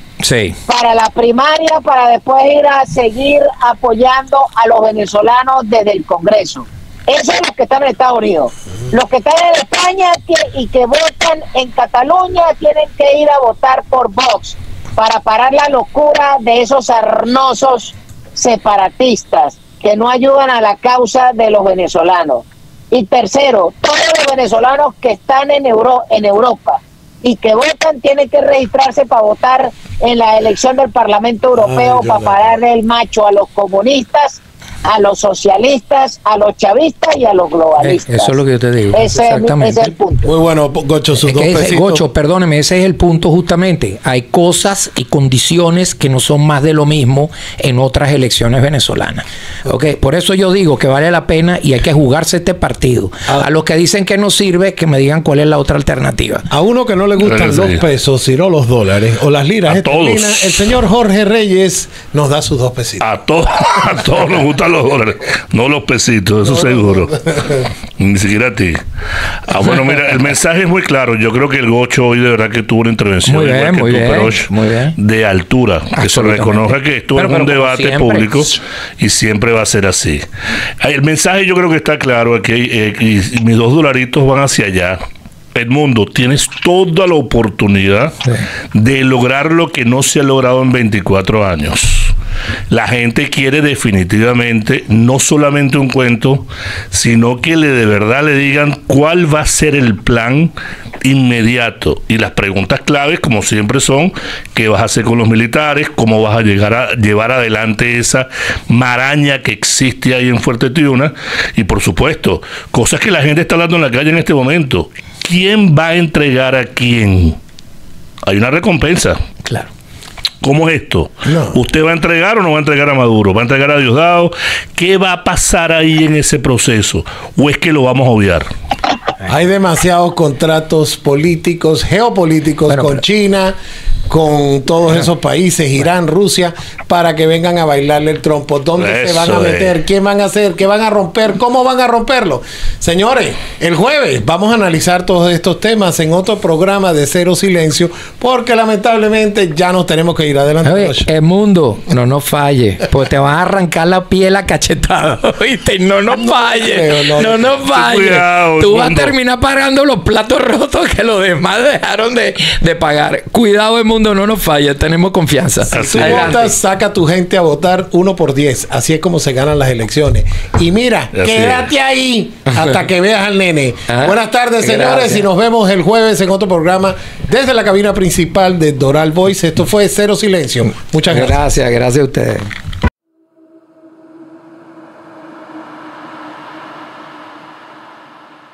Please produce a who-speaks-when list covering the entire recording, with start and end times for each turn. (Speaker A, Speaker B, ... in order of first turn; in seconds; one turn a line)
Speaker A: 0.2-0.6
Speaker B: 0.7-38.4
Speaker C: 31.5-32.5
Speaker A: 37.8-39.9
Speaker B: 38.9-40.3
Speaker C: 40.2-42.0
Speaker A: 41.2-56.4
Speaker C: 56.5-63.0
Speaker D: 57.2-57.8
Speaker D: 59.7-60.7
Speaker D: 63.0-68.8
Speaker C: 66.5-67.6
Speaker D: 69.5-80.2
Speaker A: 73.3-74.9
Speaker A: 75.9-78.6
Speaker D: 80.8-85.0
Speaker D: 85.5-88.2
Speaker D: 88.7-92.1
Speaker D: 92.7-117.4
Speaker D: 118.2-119.2
Speaker D: 120.4-128.5
Speaker C: 121.2-121.6
Speaker C: 129.2-133.5
Speaker A: 132.7-133.0
Speaker C: 134.1-151.1
Speaker D: 138.8-139.7
Speaker A: 150.6-166.5
Speaker C: 156.1-157.5
Speaker D: 157.7-159.1
Speaker C: 165.7-181.4
Speaker D: 165.7-166.4
Speaker D: 171.1-171.7
Speaker A: 173.9-175.2
Speaker A: 181.0-182.5